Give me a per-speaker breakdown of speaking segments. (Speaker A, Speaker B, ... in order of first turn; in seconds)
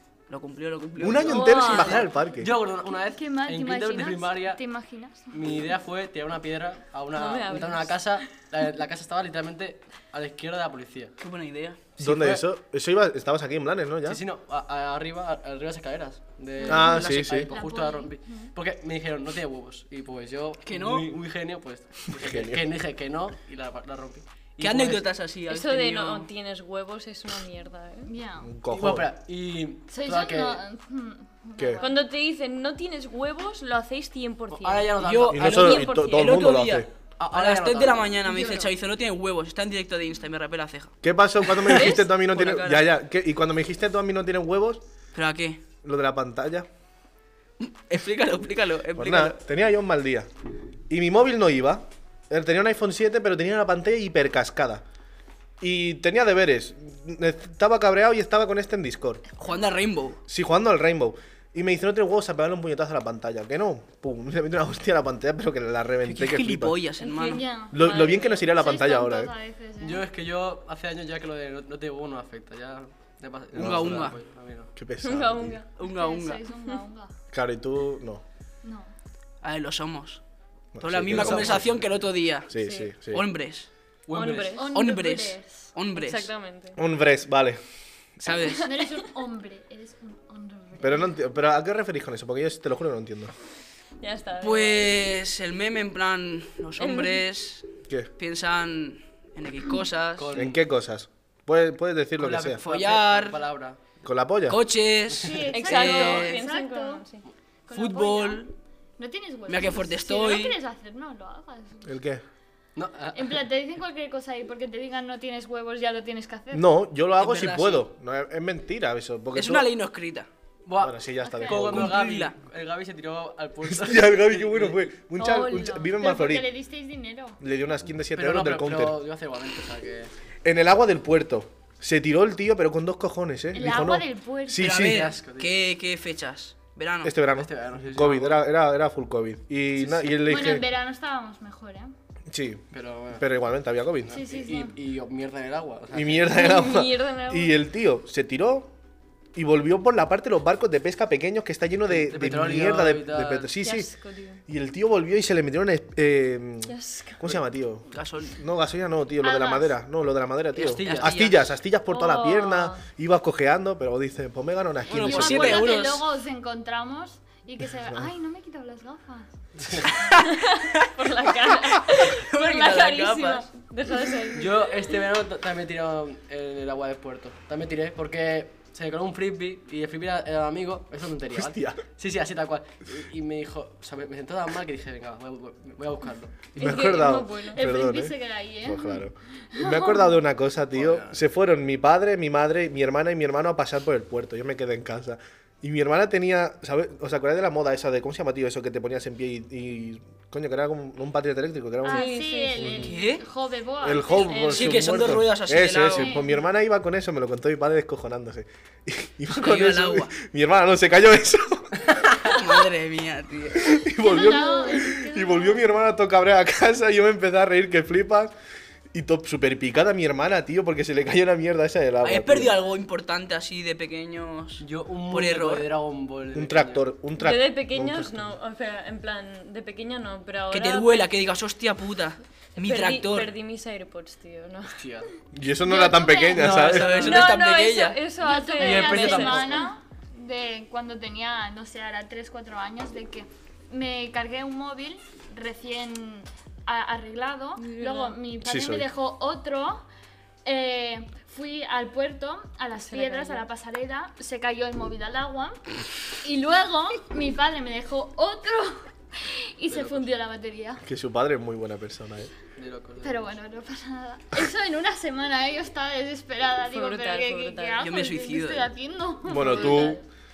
Speaker A: 0.3-2.0, 11.2-11.8, 20.6-21.1, 24.6-26.3, 35.0-40.9, 42.0-42.8, 45.1-45.6, 47.6-49.4, 59.4-60.2, 66.0-67.5, 73.5-74.2, 75.8-76.4, 79.4-80.2, 80.8-82.5, 83.1-83.7, 84.7-86.3, 88.2-88.7, 94.4-97.7, 98.2-100.4, 102.6-103.4, 104.5-106.4, 107.7-108.5, 109.5-110.5, 117.2-117.8, 119.3-120.3, 121.6-122.3, 134.6-137.1, 157.9-158.4, 160.6-161.5, 164.9-166.1, 169.9-170.6, 171.8-173.4, 202.8-203.2, 204.4-206.2, 209.3-210.1, 212.2-213.8, 222.0-225.7, 230.5-233.3, 236.5-238.0, 267.8-268.7
Speaker B: 1.0-2.5, 12.0-14.2, 16.6-17.5, 22.2-22.6, 28.4-29.1, 35.3-36.9, 41.0-44.8, 45.8-46.6, 49.0-50.3, 50.9-54.8, 55.6-59.2, 60.3-66.8, 67.7-69.3, 73.5-74.1, 74.7-75.6, 77.3-78.2, 80.7-81.8, 82.5-83.2, 86.8-87.6, 90.8-93.3, 100.3-102.6, 104.0-104.6, 111.8-112.2, 116.5-119.7, 120.8-122.0, 123.7-126.5, 127.4-129.0, 130.4-135.1, 137.0-140.7, 142.3-144.2, 145.9-148.7, 149.3-153.9, 154.5-165.7, 181.3-181.8, 186.6-202.9, 203.8-211.9, 213.5-218.3, 218.9-222.5, 226.3-228.2, 235.3-237.0, 248.4-248.9, 260.8-262.3, 269.2-270.0
Speaker C: 1.3-1.9, 3.1-5.4, 17.5-18.5, 28.0-28.6, 29.9-32.0, 38.3-38.6, 67.1-70.1, 75.8-77.1, 78.6-78.9, 84.5-85.7, 88.6-91.1, 105.1-107.0, 107.7-108.5, 109.0-111.9, 113.1-116.7, 121.2-121.7, 125.2-127.4, 133.5-134.7, 140.2-141.9, 144.1-144.7, 159.2-159.7, 165.0-169.3, 187.5-190.2, 201.8-205.1, 205.9-206.4, 214.0-215.7, 235.7-236.4, 237.2-249.8, 250.4-255.6, 256.2-260.8, 263.0-270.0
Speaker D: 1.5-2.0, 7.1-8.0, 25.5-28.1, 31.8-36.4, 41.7-42.1, 67.0-68.4, 75.0-75.7, 82.6-82.9, 84.1-85.1, 85.9-86.8, 88.5-88.9, 94.0-95.0, 96.8-97.2, 105.5-107.2, 146.3-147.6, 153.6-154.4, 156.7-157.2, 161.9-162.8, 170.2-174.9, 186.6-187.6, 201.8-202.9, 204.3-204.6, 214.0-214.8, 227.2-231.0, 232.6-234.8, 237.0-239.7, 247.6-248.2, 252.7-253.4, 266.7-267.8, 269.3-270.0
Speaker E: 1.7-4.6, 5.3-11.1, 12.0-12.4, 14.0-25.1, 28.7-30.6, 34.5-35.6, 37.2-38.1, 69.8-74.7, 84.1-84.6, 100.2-100.6, 102.2-103.8, 112.8-113.4, 120.7-124.8, 128.1-130.1, 134.7-135.5, 137.4-138.4, 139.8-140.1, 142.7-143.2, 144.1-146.3, 151.9-153.5, 160.6-161.2, 174.3-186.8, 190.7-191.2, 224.6-226.9, 234.7-235.1, 236.3-237.3, 238.6-239.7, 259.7-260.0, 262.6-263.3